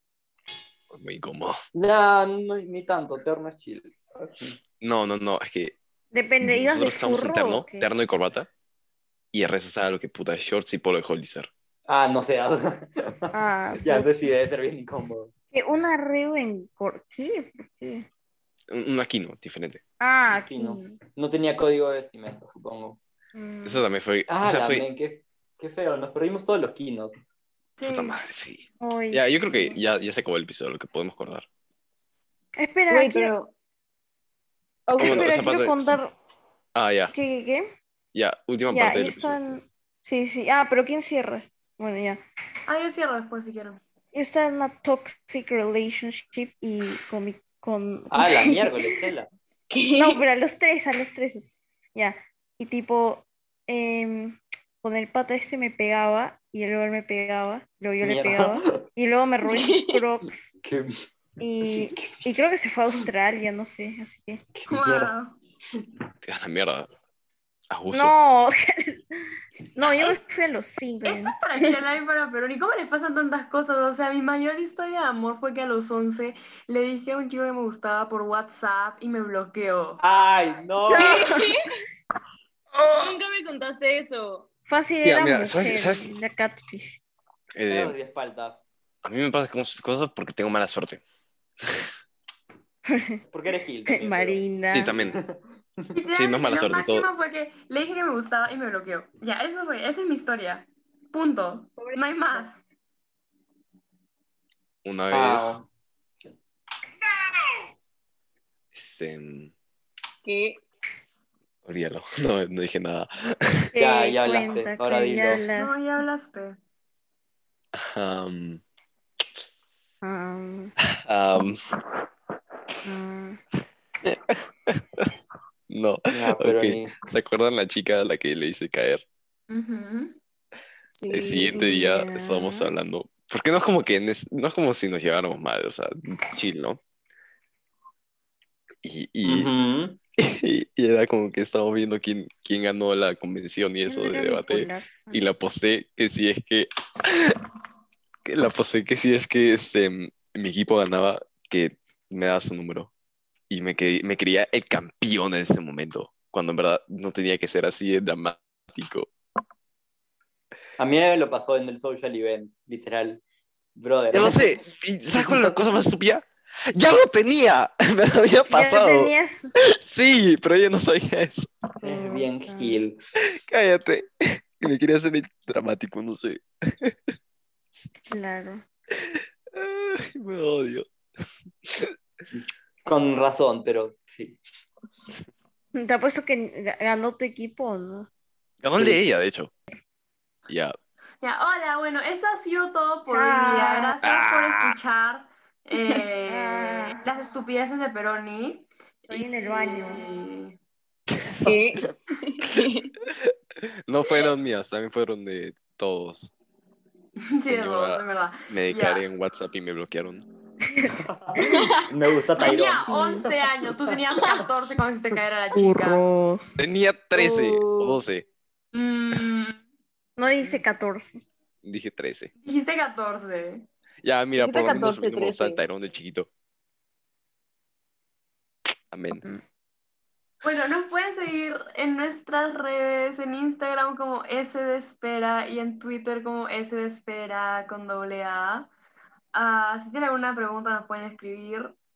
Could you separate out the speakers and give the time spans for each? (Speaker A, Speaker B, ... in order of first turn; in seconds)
Speaker A: 0.9-1.6, 4.8-5.8, 6.4-8.5, 9.3-11.5, 18.7-19.8, 23.6-24.9, 27.9-31.4, 35.0-36.0, 36.7-37.1, 38.1-39.5, 66.2-66.9, 67.7-68.1, 82.7-83.2, 85.0-86.1, 87.5-88.0, 89.0-91.0, 91.6-91.9, 94.7-95.2, 96.1-97.1, 104.8-105.6, 108.7-109.5, 111.6-113.6, 117.7-118.6, 120.9-121.6, 124.0-125.1, 125.7-129.0, 131.1-136.8, 138.8-139.5, 140.2-147.4, 148.2-152.9, 153.5-159.1, 164.1-171.5, 173.3-177.0, 178.9-180.9, 181.6-181.9, 188.6-189.5, 190.5-190.7, 194.0-194.8, 201.2-201.8, 202.4-203.3, 203.9-206.3, 207.4-210.2, 216.6-218.2, 221.6-222.3, 224.0-226.3, 228.9-229.2
Speaker B: 1.7-4.5, 11.9-15.3, 20.5-23.0, 24.3-27.2, 48.1-49.3, 58.0-58.8, 60.6-60.9, 61.6-62.3, 64.5-65.1, 80.0-81.2, 87.7-88.6, 93.3-94.4, 94.9-95.9, 105.1-105.7, 113.8-115.4, 126.1-126.9, 139.2-140.0, 160.8-163.2, 163.8-164.6, 165.1-165.5, 171.8-173.0, 182.8-184.4, 188.7-189.0, 211.1-214.2
Speaker C: 6.1-7.9, 13.3-14.2, 15.5-18.1, 20.0-21.0, 23.3-23.8, 28.8-29.8, 32.6-33.3, 35.0-36.1, 37.1-37.7, 38.7-42.2, 44.1-48.9, 49.9-60.5, 61.4-64.4, 67.9-69.2, 69.7-71.3, 80.9-81.5, 84.7-87.0, 92.9-93.2, 93.9-94.9, 113.7-115.8, 120.0-120.7, 122.8-123.4, 131.5-132.7, 143.8-145.2, 168.5-169.5, 171.8-172.8, 178.1-178.6, 185.8-188.1, 193.1-193.9, 196.3-197.0, 199.1-200.0, 210.7-211.6, 212.8-213.3, 215.5-216.4, 220.2-221.2
Speaker D: 27.8-28.2, 42.7-43.8, 64.7-65.4, 69.8-70.2, 71.0-80.0, 95.9-102.6, 115.5-116.6, 129.5-130.2, 191.2-200.6, 204.1-204.3, 207.3-209.0, 212.4-216.0, 218.7-219.6, 222.4-223.7, 230.4-238.7, 239.3-241.8
Speaker E: 32.9-33.5, 34.9-35.2, 49.7-50.2, 59.5-60.0, 80.9-81.8, 83.0-84.5, 101.8-102.5, 110.2-110.6, 131.0-131.6, 201.4-202.9, 211.5-211.8, 217.1-218.0, 224.4-225.6